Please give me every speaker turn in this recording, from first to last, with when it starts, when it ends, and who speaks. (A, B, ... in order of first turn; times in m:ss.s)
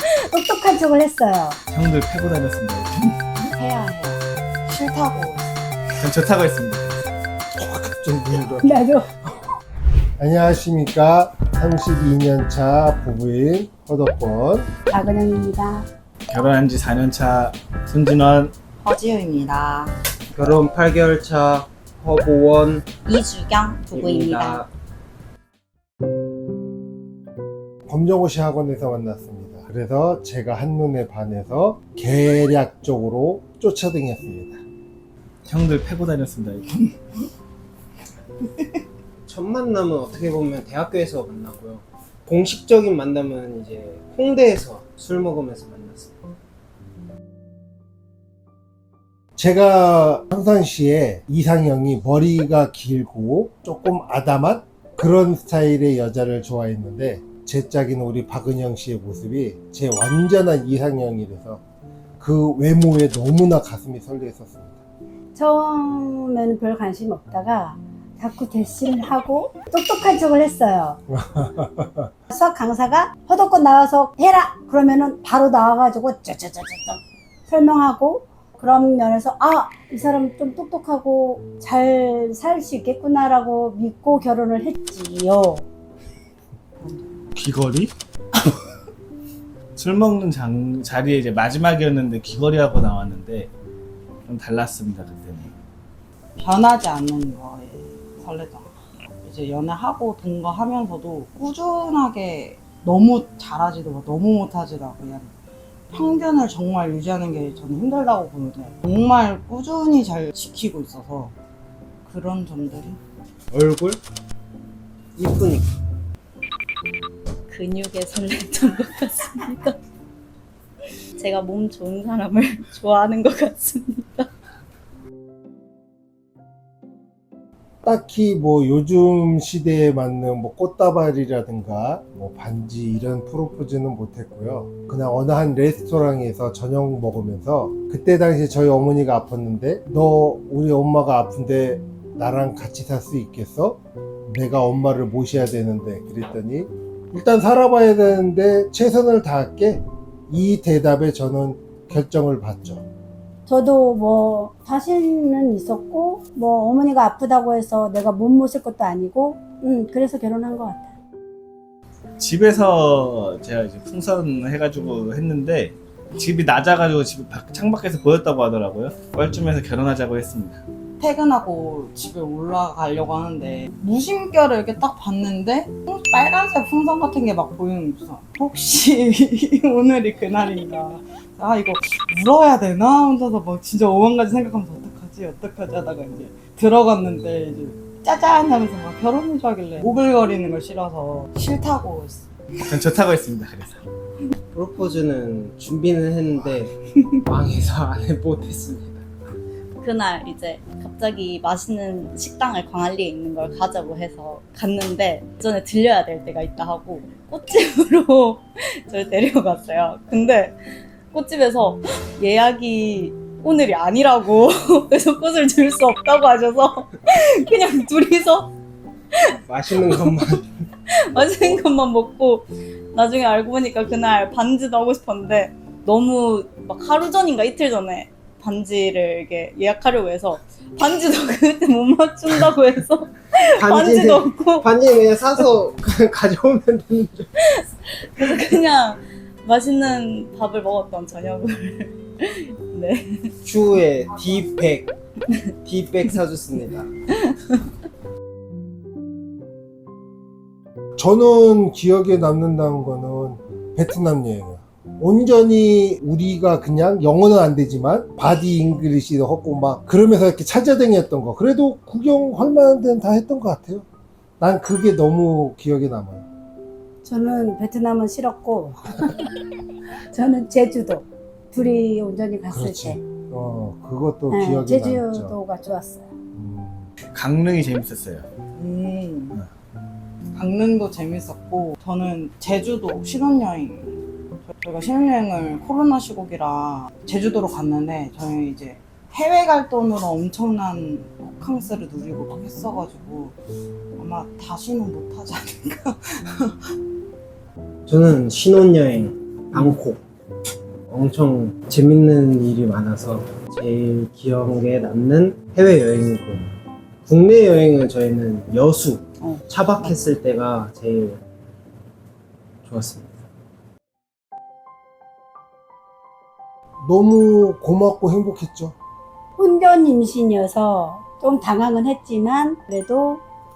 0:00.2-0:01.6 A
0:01.7-0:03.3 B
0:03.6-0:04.2 A
0:04.6-0:05.5 C
0:06.0-0:07.1 B
0:07.6-0:09.3 D
0:08.6-0:09.1 A
0:10.2-0:14.7 D
0:14.9-0:15.9 A
0:16.3-0:18.5 B
0:18.8-0:19.9 C
0:20.3-0:22.8 E
0:23.0-0:24.6 F
0:23.9-0:24.7 E
0:27.9-0:34.6 D
0:35.4-0:37.2 B
0:39.3-0:46.1 E
0:49.4-1:01.6 D
1:02.2-1:04.8 D
1:05.4-1:11.0 A
1:11.1-1:12.1 D
1:12.3-1:25.6 A
1:26.8-1:27.2 C
1:27.3-1:27.9 B
1:29.8-1:33.5 B
1:34.2-1:35.5 B
1:36.4-1:38.7 C
1:39.2-1:45.3 C
1:45.9-1:51.3 C
1:52.0-1:53.0 C
1:53.5-1:54.0 E
1:55.2-1:55.7 E
1:57.5-1:59.8 F
2:01.2-2:04.3 F
2:07.8-2:32.8 D
2:33.5-2:40.9 A
2:42.2-2:50.6 B
2:51.0-3:12.3 C
3:12.6-3:13.8 B
3:14.5-3:16.7 E
3:17.2-3:19.0 E
3:19.8-3:38.5 F
3:39.5-3:40.5 E
3:40.9-3:54.7 F
3:53.6-3:57.3 E
3:57.5-4:03.3 F
4:03.4-4:04.9 E
4:05.6-4:06.9 E
4:07.2-4:07.5 F
4:11.0-4:23.8 D
4:24.4-4:26.2 D
4:27.0-4:29.3 A
4:30.1-4:33.0 A
4:32.5-4:35.3 D
4:34.3-4:36.1 A
4:36.3-4:36.9 D
4:37.1-4:38.3 B
4:38.5-4:39.4 C
4:40.3-4:53.4 C
4:54.0-4:56.7 C
4:57.9-5:00.0 E
5:00.9-5:06.5 E
5:07.0-5:11.2 E
5:12.6-5:13.1 E
5:16.8-5:18.7 D
5:19.4-5:23.2 A